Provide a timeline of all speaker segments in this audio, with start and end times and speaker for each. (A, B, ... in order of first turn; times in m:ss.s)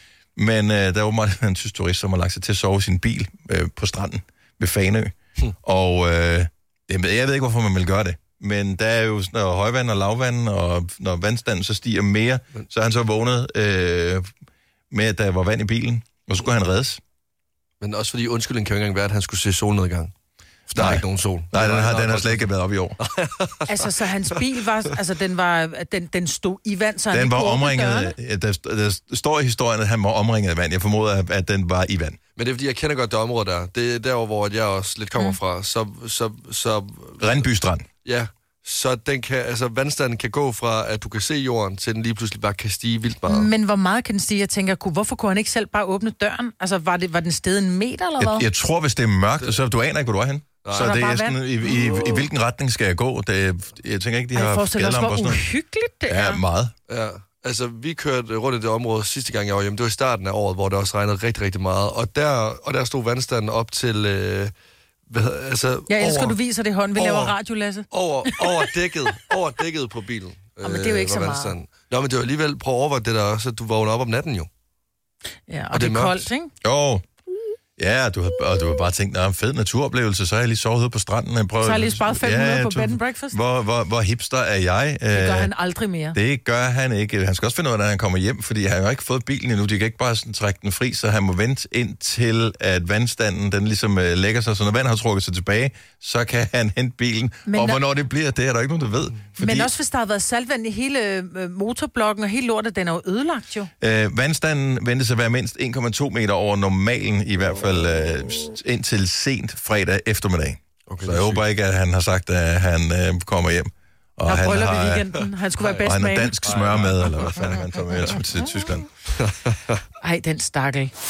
0:00.4-0:14.3 A
0:14.9-0:17.0 A
0:17.8-0:20.1 B
0:20.7-0:22.5 B
0:20.8-0:23.0 A
0:23.0-0:23.9 B
0:23.7-0:28.1 C
0:27.1-0:32.2 A
0:32.4-0:37.4 B
0:37.2-0:37.9 A
0:38.0-0:43.5 B
0:43.3-0:48.5 C
0:48.2-0:55.4 A
0:50.6-0:51.0 B
0:50.7-0:52.1 C
0:54.3-0:56.4 C
0:56.1-0:56.7 A
0:56.9-1:04.5 B
1:05.1-1:06.4 B
1:05.9-1:08.5 C
1:07.0-1:07.4 B
1:07.9-1:14.5 B
1:10.6-1:11.5 C
1:15.5-1:16.5 C
1:15.7-1:16.3 B
1:16.6-1:17.0 A
1:17.8-1:25.5 A
1:21.6-1:23.4 C
1:25.1-1:26.2 C
1:26.1-1:39.7 A
1:37.5-1:37.8 C
1:39.4-1:43.7 C
1:43.8-1:55.2 A
1:50.9-1:51.4 B
1:54.3-1:56.4 C
1:55.8-1:58.9 A
1:56.4-1:57.6 B
1:59.2-1:59.8 B
2:00.0-2:00.9 C